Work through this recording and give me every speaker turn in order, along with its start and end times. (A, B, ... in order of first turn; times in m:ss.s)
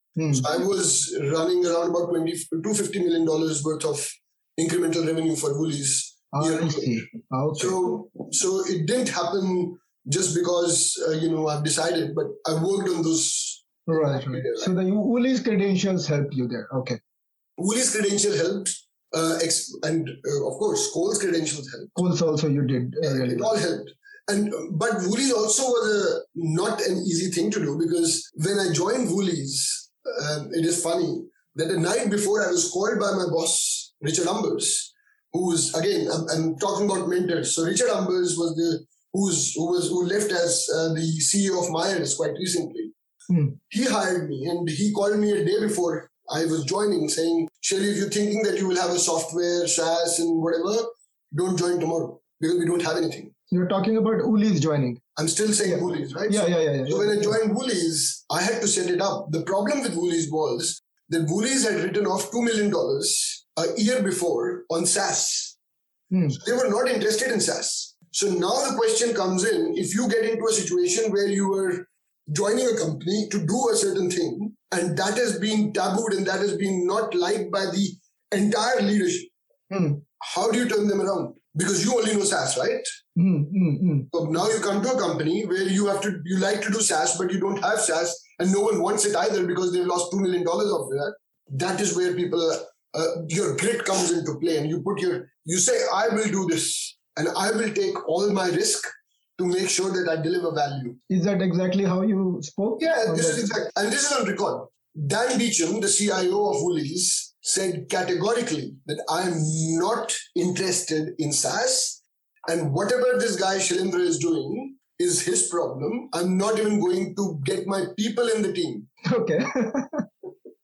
0:00.2-0:00.5 A
0:00.3-0:14.7 B
0:06.3-0:08.0 A
0:13.9-0:17.0 A
0:17.6-0:22.0 B
0:22.0-0:23.5 A
0:23.0-0:42.9 B
0:43.3-0:43.6 A
0:43.7-0:53.3 B
0:53.5-0:55.0 A
0:55.2-1:05.6 B
0:55.6-0:57.4 A
1:06.1-1:06.4 A
1:06.3-1:19.3 B
1:19.7-1:20.0 A
1:20.2-1:22.9 B
1:23.2-1:24.1 A
1:24.1-1:38.8 B
1:39.4-1:41.0 B
1:41.1-1:43.5 A
1:42.8-1:58.9 B
1:59.0-2:00.0 A